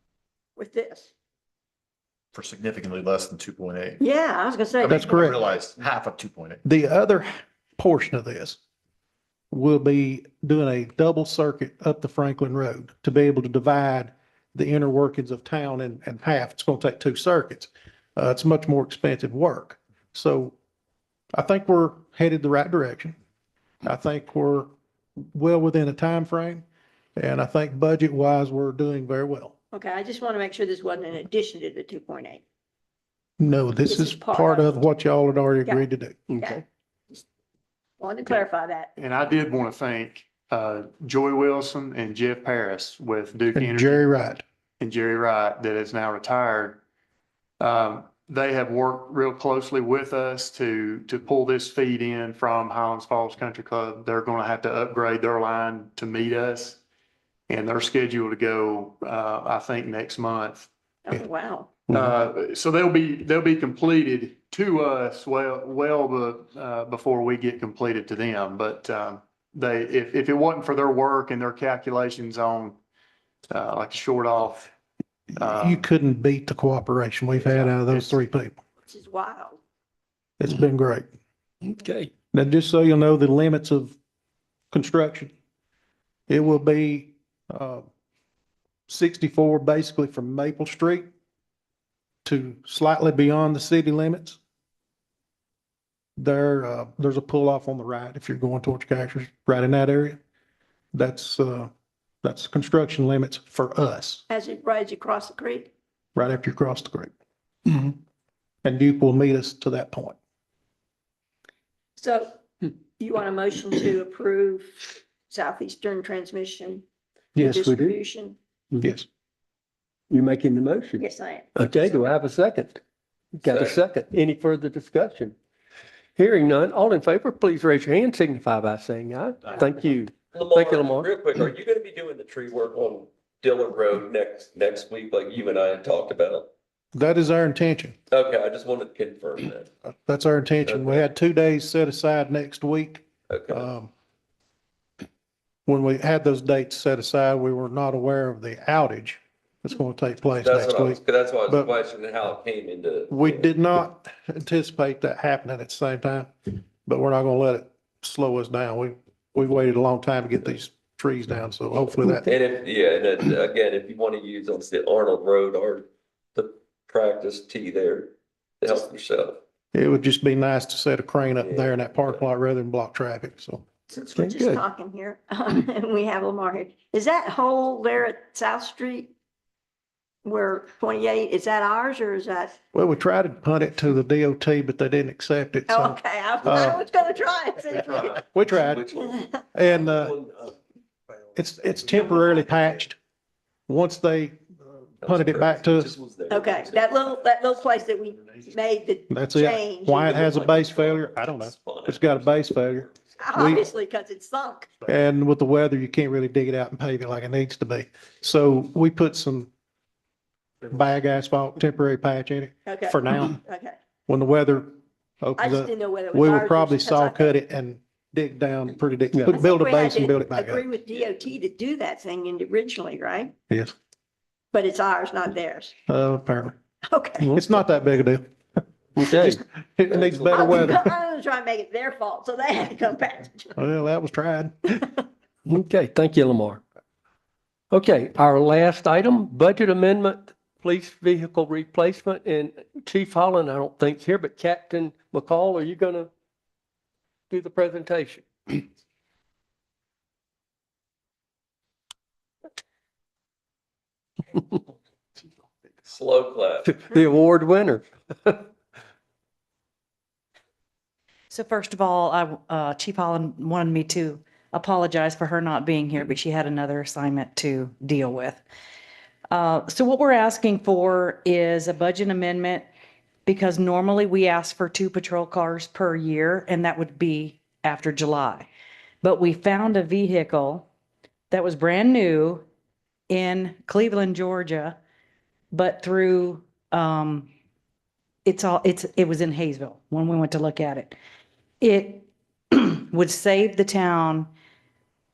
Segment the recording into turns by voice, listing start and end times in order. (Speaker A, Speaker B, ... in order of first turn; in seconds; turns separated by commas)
Speaker A: 0.6-1.1, Speaker B: 2.3-4.0, Speaker A: 4.0-5.3, Speaker B: 4.8-6.6, Speaker C: 4.9-5.4, Speaker C: 6.7-8.6, Speaker C: 9.5-20.6, Speaker C: 21.3-23.2, Speaker C: 23.9-26.6, Speaker C: 27.2-29.5, Speaker A: 29.7-32.4, Speaker C: 33.4-36.2, Speaker A: 33.9-34.8, Speaker D: 36.3-36.6, Speaker A: 36.4-36.6, Speaker A: 38.0-38.9, Speaker E: 39.0-44.0, Speaker C: 43.5-44.4, Speaker E: 44.8-46.8, Speaker E: 47.6-56.8, Speaker E: 57.5-60.7, Speaker A: 61.1-61.8, Speaker E: 61.9-72.8, Speaker E: 73.5-74.7, Speaker E: 75.3-75.9, Speaker C: 75.4-78.6, Speaker E: 77.4-78.2, Speaker A: 78.9-79.6, Speaker C: 80.4-81.1, Speaker D: 81.7-82.1, Speaker C: 82.3-84.0, Speaker C: 84.7-85.3, Speaker C: 86.3-87.9, Speaker C: 88.9-91.1, Speaker C: 92.2-94.4, Speaker C: 96.2-100.2, Speaker C: 100.9-101.7, Speaker C: 102.2-104.2, Speaker A: 104.3-105.7, Speaker C: 106.2-107.1, Speaker C: 108.6-110.2, Speaker A: 112.0-112.4, Speaker A: 113.0-116.8, Speaker C: 117.3-117.7, Speaker A: 117.4-118.4, Speaker D: 117.6-118.0, Speaker D: 120.1-121.0, Speaker A: 121.0-121.5, Speaker D: 121.6-122.8, Speaker D: 123.3-125.3, Speaker F: 123.4-123.8, Speaker D: 126.2-131.1, Speaker F: 130.3-136.5, Speaker C: 136.9-138.0, Speaker F: 138.1-139.7, Speaker C: 139.9-143.9, Speaker F: 140.7-141.0, Speaker F: 143.3-143.7, Speaker C: 145.7-151.7, Speaker F: 150.3-153.5, Speaker C: 153.1-162.3, Speaker F: 162.1-169.4, Speaker C: 169.7-173.7, Speaker F: 171.4-172.2, Speaker A: 173.9-179.1, Speaker D: 174.2-174.6, Speaker A: 180.2-182.6, Speaker C: 182.7-186.8, Speaker A: 185.7-188.2, Speaker F: 188.0-190.6, Speaker C: 188.2-188.8, Speaker A: 188.9-189.4, Speaker C: 189.5-190.1, Speaker C: 191.3-193.0, Speaker C: 193.7-194.4, Speaker F: 195.0-197.2, Speaker C: 195.0-195.9, Speaker A: 196.3-200.2, Speaker C: 199.1-203.7, Speaker F: 200.0-202.9, Speaker A: 203.2-204.7, Speaker C: 204.9-209.5, Speaker C: 210.7-213.4, Speaker A: 212.7-213.8, Speaker C: 214.1-220.6, Speaker A: 215.4-217.4, Speaker A: 219.3-223.3, Speaker A: 224.5-225.7, Speaker C: 225.9-226.6, Speaker A: 226.9-227.3, Speaker C: 227.3-228.3, Speaker D: 229.0-229.4, Speaker C: 229.1-230.9, Speaker F: 229.9-230.6, Speaker A: 230.3-233.6, Speaker C: 233.6-234.8, Speaker D: 235.5-236.6, Speaker D: 237.7-246.1, Speaker D: 247.3-248.7, Speaker F: 255.9-256.9, Speaker D: 256.6-258.5, Speaker G: 261.3-268.4, Speaker G: 269.3-272.7, Speaker G: 273.3-278.5, Speaker G: 279.0-280.7, Speaker G: 281.3-282.4, Speaker G: 283.1-284.8, Speaker G: 285.5-287.3, Speaker G: 288.2-291.0, Speaker G: 291.6-294.3